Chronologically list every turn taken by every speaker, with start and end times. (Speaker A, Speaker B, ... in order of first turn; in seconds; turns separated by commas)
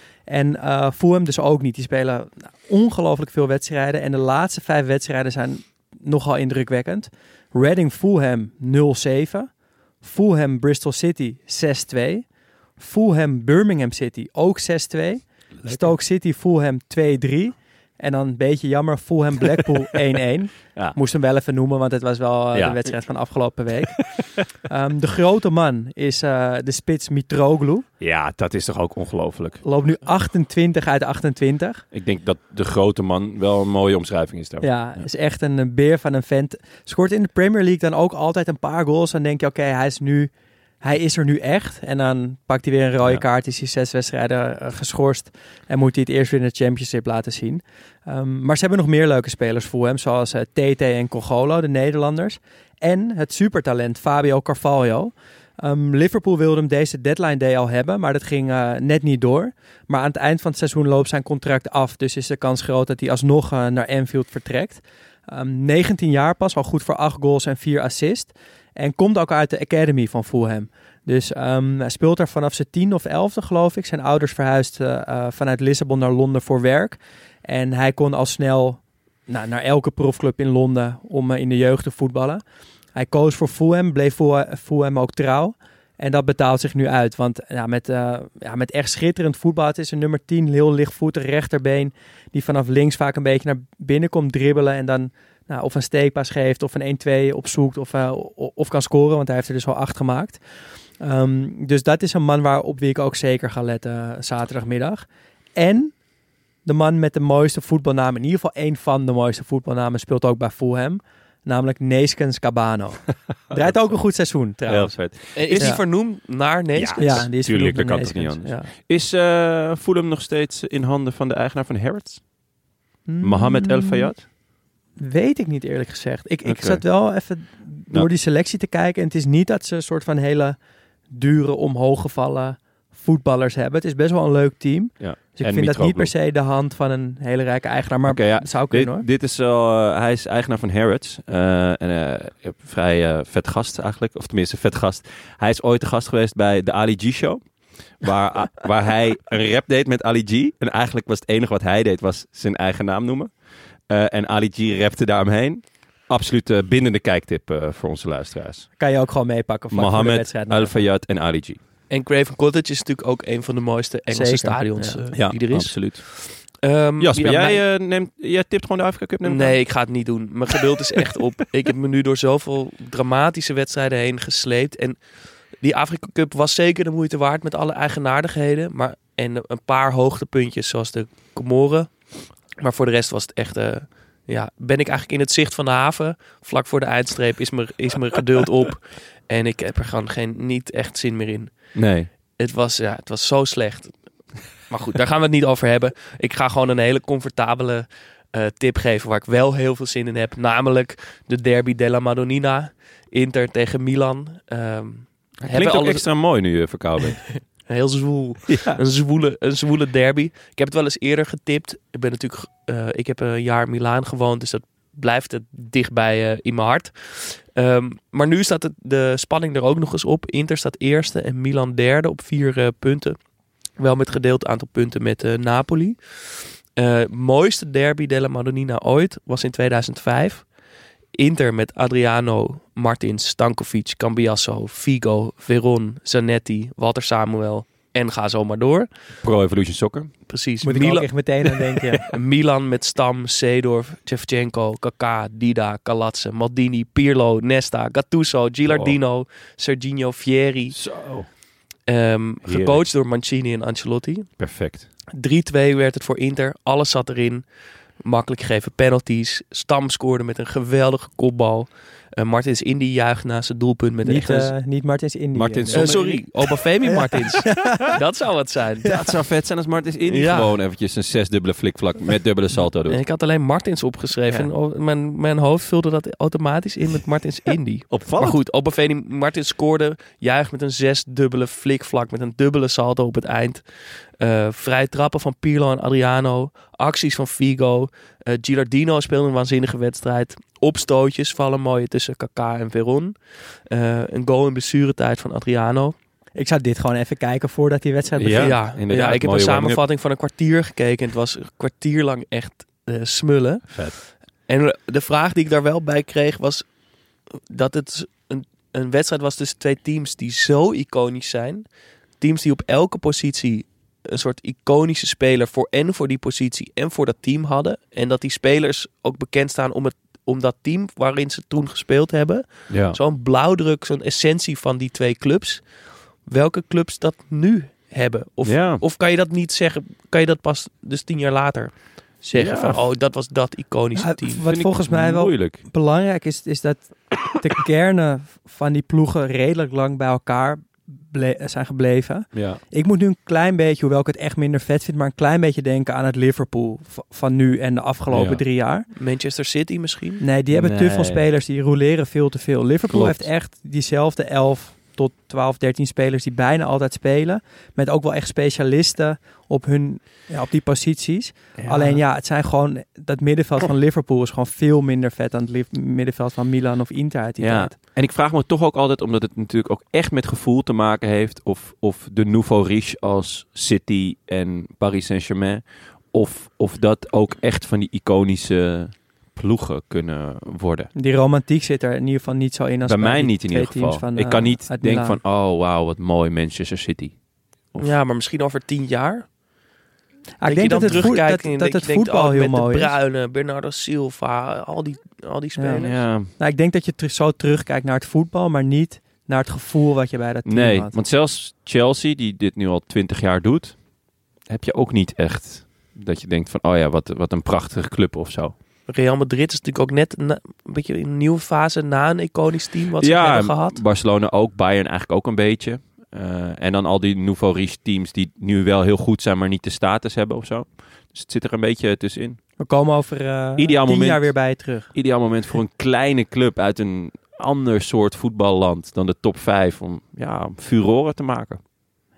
Speaker A: 0.3-27.9, Speaker B: 15.6-15.9, Speaker B: 22.5-22.9, Speaker B: 28.0-29.6, Speaker A: 29.6-31.8, Speaker B: 31.9-35.0, Speaker A: 34.6-82.4, Speaker A: 82.9-100.4, Speaker A: 101.0-106.0, Speaker A: 106.6-115.0, Speaker B: 113.5-114.0, Speaker B: 114.6-115.8, Speaker C: 115.3-117.3, Speaker A: 115.5-115.8, Speaker B: 116.7-122.2, Speaker A: 117.0-118.5, Speaker A: 123.0-124.1, Speaker B: 123.2-124.3, Speaker A: 125.0-130.6, Speaker B: 126.4-126.8, Speaker A: 131.1-139.1, Speaker B: 135.0-136.1, Speaker B: 138.1-153.3, Speaker B: 153.9-158.7, Speaker A: 158.8-160.9, Speaker B: 159.7-161.6, Speaker C: 161.9-167.6, Speaker A: 164.1-165.0, Speaker B: 165.1-166.3, Speaker B: 167.0-169.6, Speaker C: 169.2-206.7, Speaker B: 191.7-192.1, Speaker B: 205.4-207.4, Speaker C: 207.5-223.2, Speaker B: 208.5-208.8, Speaker C: 223.8-230.5, Speaker C: 231.1-239.1, Speaker B: 239.2-240.1, Speaker C: 240.3-241.3, Speaker A: 240.6-242.0, Speaker C: 242.1-250.8, Speaker B: 248.7-248.9, Speaker B: 250.7-251.3, Speaker C: 251.9-254.3, Speaker B: 252.4-252.8, Speaker B: 254.4-254.9, Speaker C: 255.1-264.5, Speaker A: 264.0-267.9, Speaker B: 265.3-266.2, Speaker C: 265.7-268.9, Speaker A: 268.8-269.1, Speaker B: 268.9-273.0, Speaker C: 270.1-270.6, Speaker C: 272.9-295.9, Speaker B: 277.9-278.4, Speaker A: 296.3-298.6, Speaker B: 298.2-299.8, Speaker C: 298.4-306.7, Speaker B: 303.7-304.0, Speaker C: 307.2-334.4, Speaker B: 322.7-323.0, Speaker B: 328.4-328.8, Speaker B: 332.3-332.8, Speaker A: 333.9-348.9, Speaker B: 334.4-335.6, Speaker B: 342.3-342.6, Speaker B: 348.1-348.4, Speaker C: 348.9-350.2, Speaker A: 350.2-367.8, Speaker B: 350.5-351.3, Speaker B: 352.9-353.3, Speaker B: 361.6-362.0, Speaker B: 367.4-380.9, Speaker A: 380.9-385.2, Speaker B: 382.8-387.9, Speaker C: 387.8-389.3, Speaker A: 390.4-392.9, Speaker C: 390.4-396.1, Speaker B: 390.8-391.1, Speaker A: 395.6-401.0, Speaker B: 395.8-396.3, Speaker B: 400.4-408.5, Speaker C: 408.9-413.8, Speaker B: 413.0-422.4, Speaker A: 422.6-424.9, Speaker B: 423.6-431.7